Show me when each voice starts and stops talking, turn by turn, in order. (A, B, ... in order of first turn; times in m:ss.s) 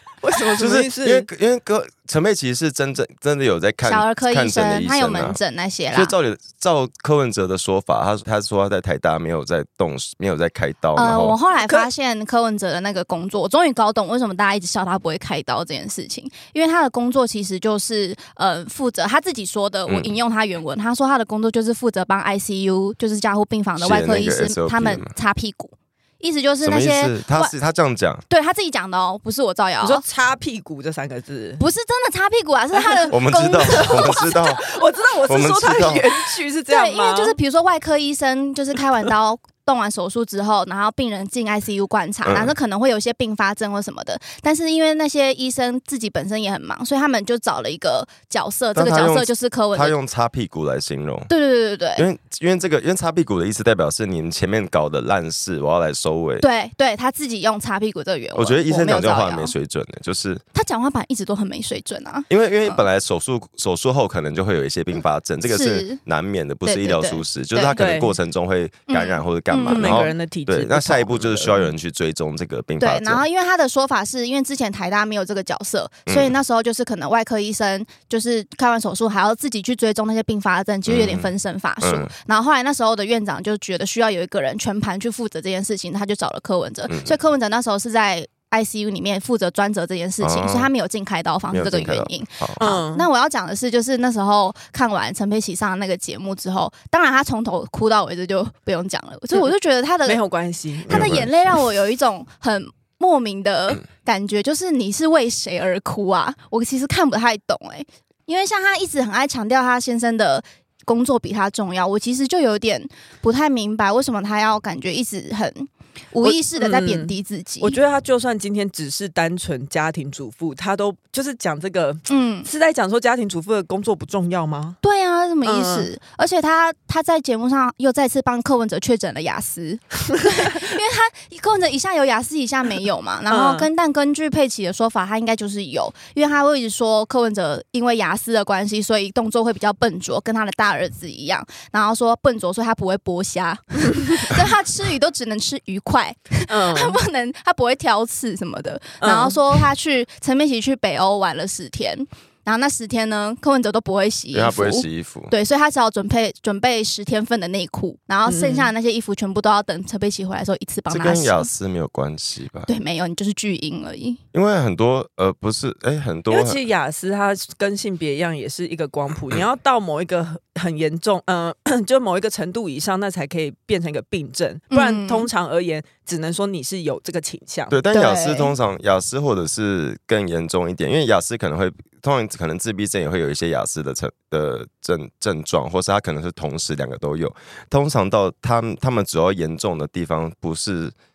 0:00.2-0:01.3 A
0:00.6-0:05.4 B
0:03.8-0:06.1 C
0:05.9-0:11.4 B
0:10.9-0:27.5 C
0:11.6-0:11.9 A
0:19.9-0:20.1 B
0:23.8-0:25.1 B
0:26.6-0:28.2 B
0:28.3-0:30.0 C
0:29.8-0:31.6 A
0:31.6-0:34.4 C
0:33.1-0:34.6 B
0:33.6-0:37.4 A
0:35.3-0:36.0 B
0:36.7-0:50.0 C
0:42.2-0:42.5 B
0:48.7-0:51.3 B
0:51.3-0:52.1 C
0:52.0-0:56.4 B
0:56.4-0:59.5 C
0:58.3-1:00.4 B
1:00.5-1:02.8 C
1:02.3-1:13.2 B
1:05.5-1:06.0 C
1:06.6-1:07.7 C
1:07.7-1:08.2 A
1:08.9-1:10.0 C
1:09.6-1:11.7 A
1:12.8-1:40.2 C
1:16.1-1:16.3 B
1:20.8-1:22.1 B
1:26.9-1:27.1 B
1:30.2-1:30.7 B
1:31.5-1:32.6 B
1:32.6-1:33.1 A
1:40.0-1:41.2 A
1:40.9-1:57.8 C
1:40.9-1:41.3 B
1:56.2-2:04.8 A
2:02.1-2:02.5 C
2:04.8-2:41.5 C
2:05.4-2:05.9 A
2:13.3-2:13.7 A
2:26.5-2:27.0 A
2:29.0-2:29.6 A
2:34.3-2:35.3 B
2:38.3-2:38.7 A
2:40.9-2:42.7 B
2:42.7-2:44.2 C
2:44.3-2:46.6 B
2:46.3-2:57.8 A
2:54.7-2:55.3 C
2:57.7-3:10.9 B
2:57.9-2:58.5 C